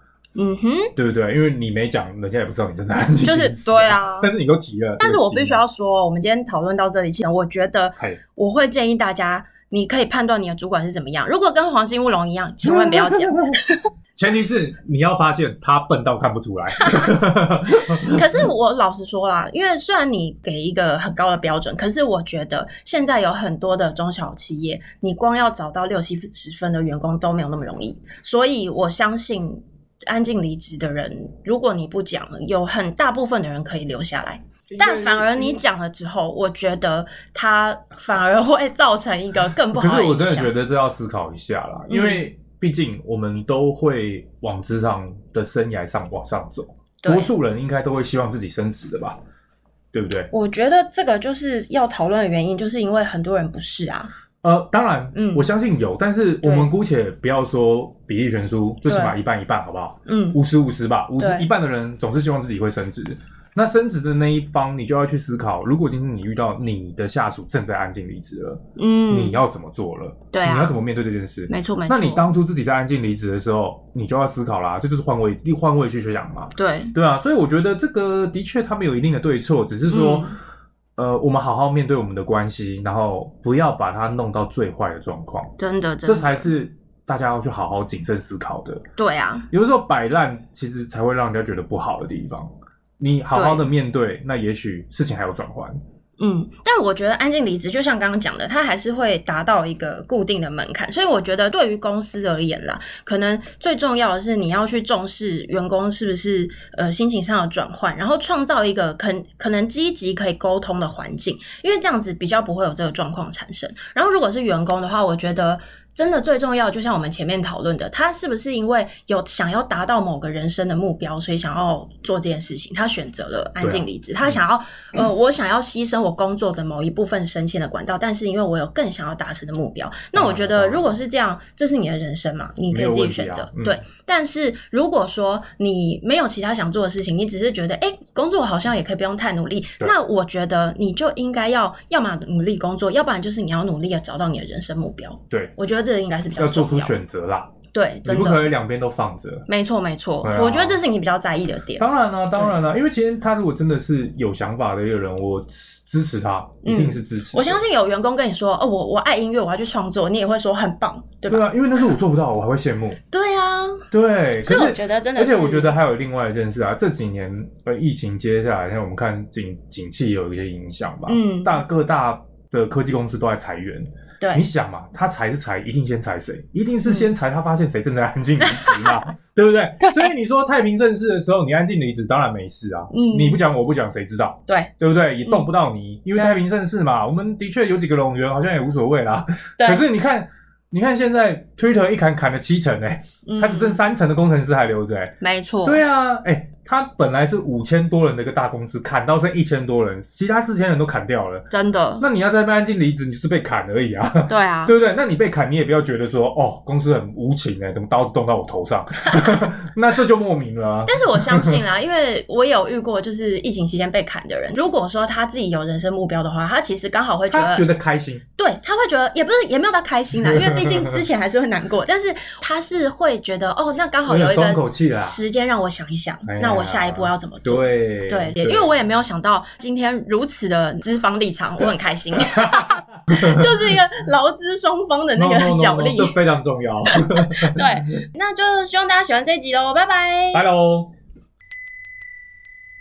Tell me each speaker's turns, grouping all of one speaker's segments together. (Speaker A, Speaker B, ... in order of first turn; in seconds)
Speaker A: 0.4-0.9, 3.2-4.3, 5.0-13.9, 16.8-17.1, 17.8-40.5, 41.9-42.3, 47.0-47.3, 50.3-54.1, 55.1-55.5, 56.4-56.7, 58.9-59.2, 60.1-60.4, 61.2-61.5, 68.8-69.4, 70.3-70.8, 71.5-72.3, 76.6-77.0, 79.9-80.4, 85.6-86.5, 89.0-89.5, 93.3-93.7, 96.2-147.0, 147.7-148.5, 149.5-152.6, 156.6-161.5, 163.1-163.9, 164.4-165.7, 171.1-171.6, 174.2-174.5, 176.8-177.1, 178.4-179.1, 179.8-180.1, 182.9-183.4, 185.2-185.5, 189.6-189.9, 193.2-193.8, 195.2-195.8, 201.5-202.1, 204.3-204.7, 210.9-217.7, 218.4-236.2, 236.9-240.4
Speaker B: 1.0-5.6, 12.6-13.6, 14.2-18.5, 34.7-35.6, 39.7-49.2, 49.9-50.3, 54.4-80.3, 81.0-85.5, 86.0-88.8, 89.5-95.8, 123.6-124.4, 130.1-130.9, 132.7-133.8, 146.4-147.5, 148.0-149.5, 150.2-150.8, 151.8-157.6, 161.3-163.0, 163.9-195.1, 195.7-201.5, 202.0-211.6, 217.3-218.2, 220.2-221.0, 224.1-225.2, 226.3-228.7, 232.1-233.8, 235.2-237.7, 240.3-240.9